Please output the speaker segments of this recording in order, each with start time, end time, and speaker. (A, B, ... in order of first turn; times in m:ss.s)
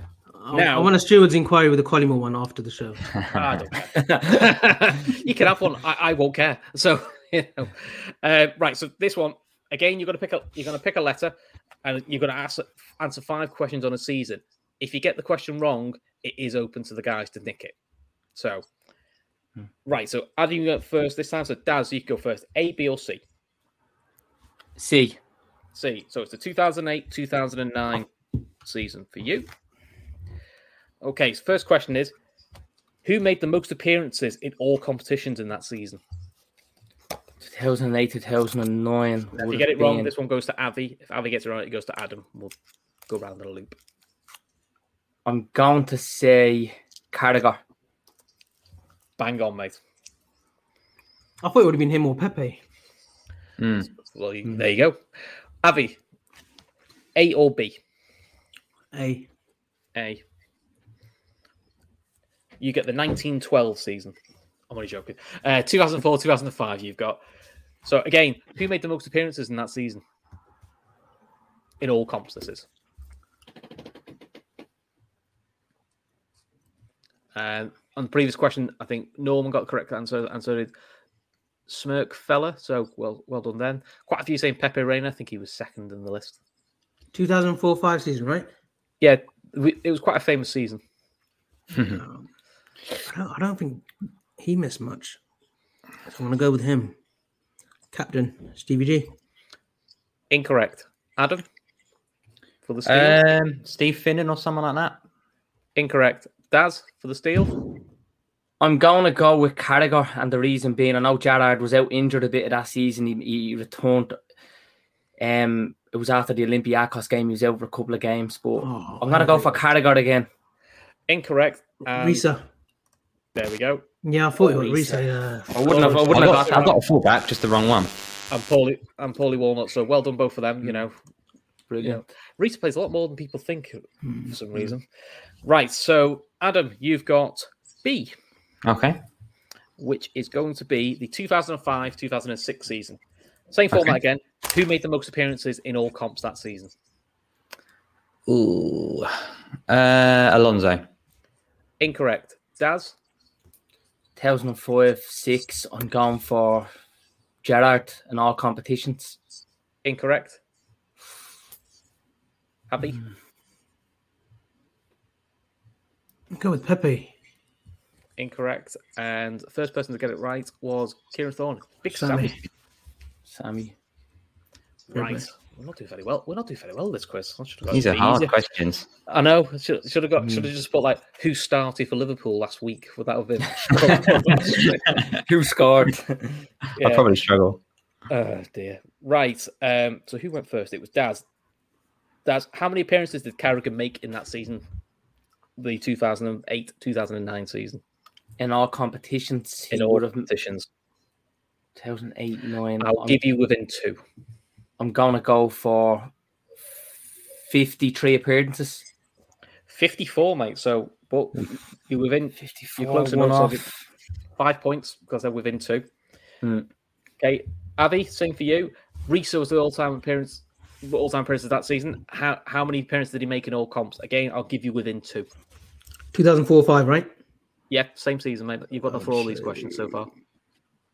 0:00.4-0:03.1 A
0:00.5-0:00.9 B
0:03.3-0:17.8 B
0:18.4-0:18.6 B
0:19.9-0:23.2 B
0:24.8-0:25.2 C
0:25.7-0:28.1 B
0:28.6-0:29.5 B
0:31.0-0:32.1 B
0:33.0-0:36.0 B
0:37.4-0:40.1 C
0:39.4-0:42.5 B
0:43.1-0:43.8 B
0:45.2-0:47.6 C
0:49.2-0:49.8 B
0:51.4-0:52.6 A
0:53.6-0:53.9 D
0:54.0-0:55.0 B
0:55.6-0:56.0 B
0:57.2-0:57.8 B
0:58.9-0:59.3 A
1:00.0-1:00.2 B
1:02.6-1:04.2 B
1:04.7-1:07.2 B
1:07.8-1:10.0 B
1:11.8-1:12.7 B
1:17.4-1:20.7 B
1:21.7-1:26.4 B
1:27.1-1:28.5 A
1:29.0-1:30.8 B
1:31.7-1:32.0 D
1:31.9-1:32.2 A
1:33.0-1:33.9 A
1:34.4-1:35.2 A
1:36.1-1:37.0 A
1:37.9-1:39.1 A
1:40.3-1:41.4 B
1:42.7-1:43.2 B
1:42.9-1:45.0 D
1:45.8-1:47.6 B
1:48.6-1:54.2 C
1:55.2-2:00.3 C
1:58.6-1:59.6 A
2:01.1-2:02.3 B
2:01.9-2:02.4 A
2:03.4-2:03.8 B
2:04.0-2:06.0 A
2:04.5-2:05.0 B
2:04.7-2:05.0 C
2:05.5-2:06.8 C
2:05.6-2:06.8 B
2:06.1-2:07.9 D
2:08.3-2:11.0 B
2:11.7-2:12.0 C
2:11.8-2:14.8 B
2:15.4-2:18.1 B
2:18.6-2:19.0 D
2:19.8-2:23.0 B
2:23.5-2:26.7 B
2:28.3-2:29.2 D
2:29.7-2:30.8 D
2:31.8-2:33.0 B
2:34.2-2:36.7 C
2:37.4-2:39.2 C
2:39.8-2:40.4 B
2:42.7-2:43.0 B
2:46.3-2:47.1 A
2:48.2-2:52.4 B
2:51.9-2:52.4 A
2:53.3-2:53.7 C
2:54.9-2:58.4 B
2:54.9-2:55.2 A
2:57.7-2:58.9 D
2:59.1-3:05.0 B
3:05.1-3:06.4 C
3:06.8-3:07.1 B
3:06.8-3:07.6 D
3:08.1-3:11.2 B
3:12.3-3:14.6 B
3:15.6-3:17.8 B
3:18.4-3:20.3 C
3:19.7-3:20.7 B
3:21.8-3:23.2 C
3:22.8-3:24.0 B
3:24.8-3:26.1 C
3:27.4-3:28.9 C
3:29.7-3:33.7 B
3:32.4-3:33.7 C
3:34.4-3:35.9 B
3:36.4-3:36.7 C
3:37.2-3:45.3 B
3:46.1-3:47.1 A
3:47.7-3:50.1 B
3:48.9-3:49.8 A